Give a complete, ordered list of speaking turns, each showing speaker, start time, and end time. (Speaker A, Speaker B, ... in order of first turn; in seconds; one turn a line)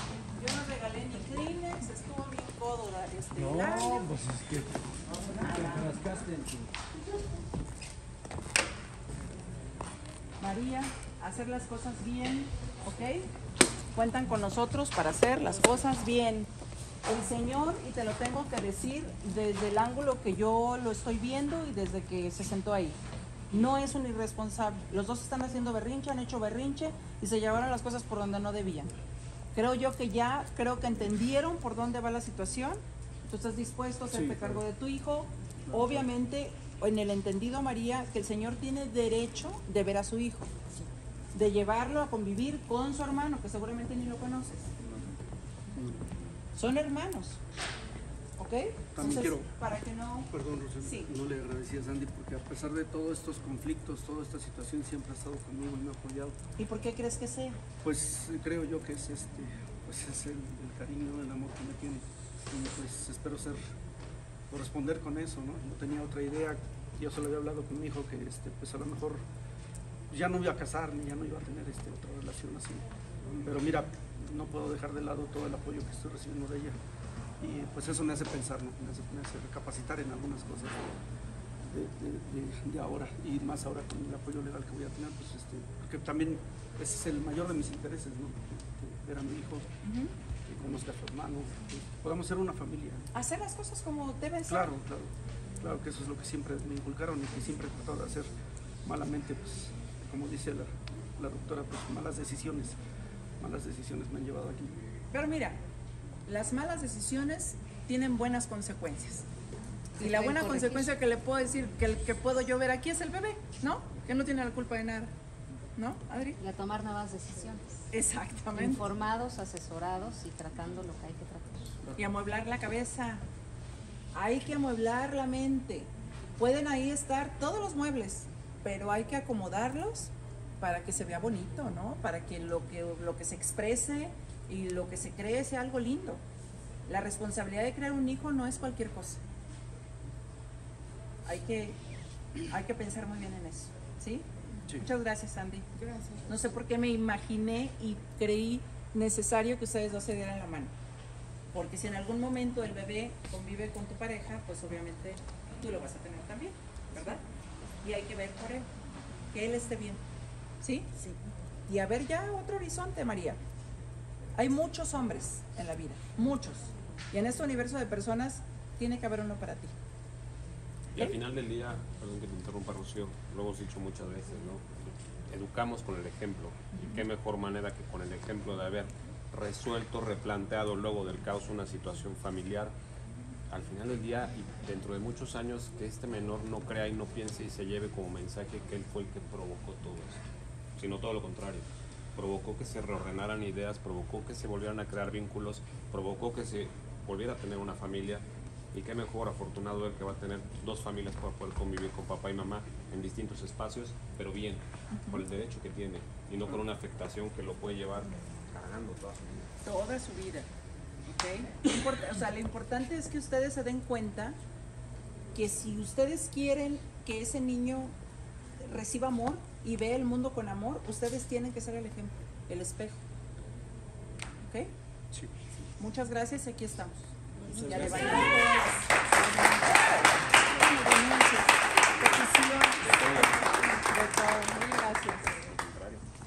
Speaker A: 0.3-4.2
Speaker B: 3.4-6.7
Speaker A: 5.2-6.1
Speaker A: 6.9-7.3
Speaker A: 10.4-13.3
Speaker A: 13.9-16.5
Speaker A: 17.0-22.9
Speaker A: 23.5-28.9
Speaker A: 29.5-40.5
Speaker C: 34.1-34.6
Speaker C: 35.7-36.0
Speaker A: 41.3-44.7
Speaker C: 44.8-45.1
Speaker C: 45.7-46.1
Speaker A: 46.5-47.4
Speaker A: 48.4-51.1
Speaker C: 48.9-49.5
Speaker C: 50.3-56.4
Speaker A: 56.6-57.6
Speaker C: 57.8-63.6
Speaker C: 64.5-69.2
Speaker C: 70.1-76.7
Speaker C: 77.4-80.9
Speaker C: 81.7-89.7
Speaker A: 89.8-90.1
Speaker C: 90.5-93.1
Speaker A: 93.1-94.8
Speaker C: 94.5-98.3
Speaker C: 98.8-102.8
Speaker C: 103.4-104.8
Speaker A: 105.1-105.6
Speaker A: 106.2-109.2
Speaker D: 110.0-110.9
Speaker A: 110.0-115.1
Speaker A: 115.8-116.4
Speaker D: 116.4-117.8
Speaker A: 117.9-118.8
Speaker D: 118.5-121.8
Speaker A: 121.9-123.2
Speaker A: 124.1-136.2
Speaker A: 136.8-139.2
Speaker A: 141.2-141.8
Speaker A: 142.5-150.7
Speaker A: 151.5-157.2
Speaker A: 157.8-158.7
Speaker A: 159.3-160.0
Speaker A: 160.6-161.1
Speaker A: 161.7-163.4
Speaker A: 164.3-169.7
Speaker E: 170.9-182.7
Speaker E: 183.5-190.2
Speaker E: 190.8-209.5
Speaker A: 204.9-205.2
Speaker A: 209.6-210.5
Speaker A: 211.0-214.3
Speaker A: 215.3-217.9
Speaker A: 218.6-223.0
Speaker A: 224.4-224.7
Speaker A: 225.8-235.3
Speaker E: 227.5-228.5
Speaker E: 232.8-233.6
Speaker E: 235.2-236.0